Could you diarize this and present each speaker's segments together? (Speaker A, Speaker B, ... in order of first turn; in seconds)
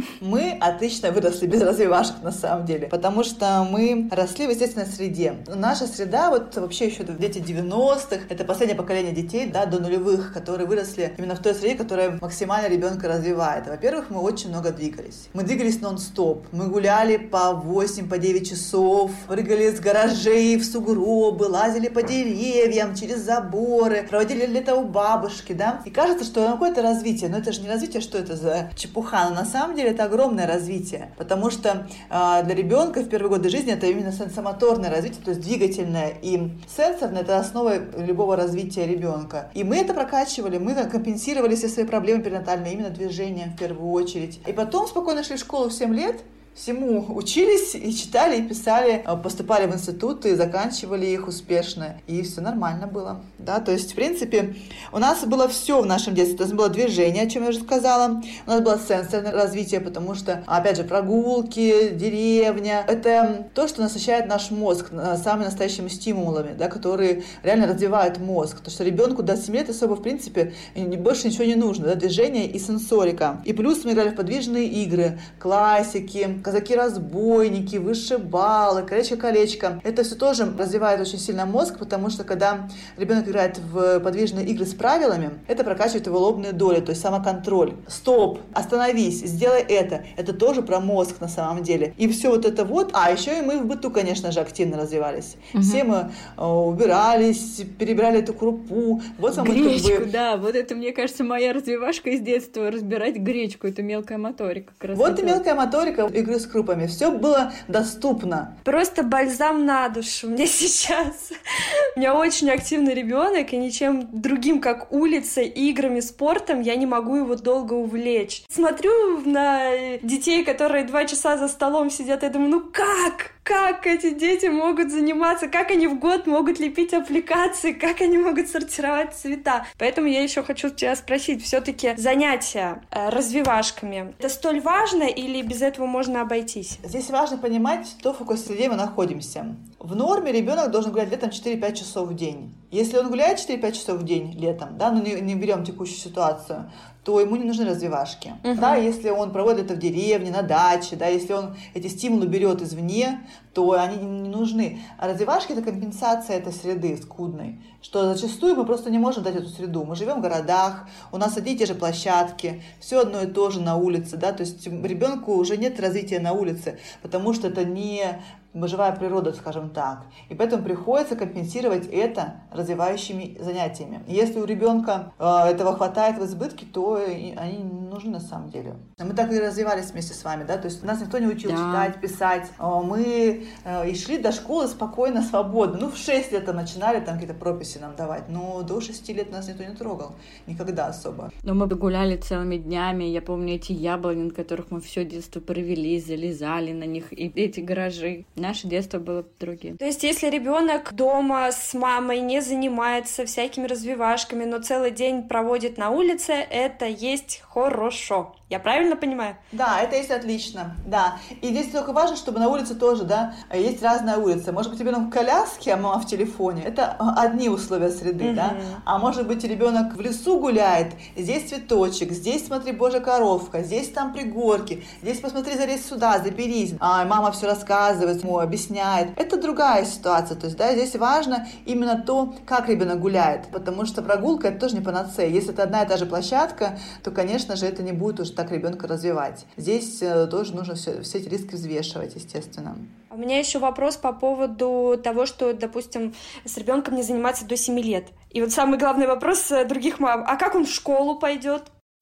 Speaker A: 0.2-100.1, 104.9-108.6, 136.8-191.3, 209.5-242.9
Speaker B: 95.5-95.8, 99.3-105.4, 181.4-181.9, 191.4-199.8
Speaker C: 108.6-111.3, 112.0-136.8, 148.4-148.8, 199.8-209.4, 218.2-218.8, 243.1-251.7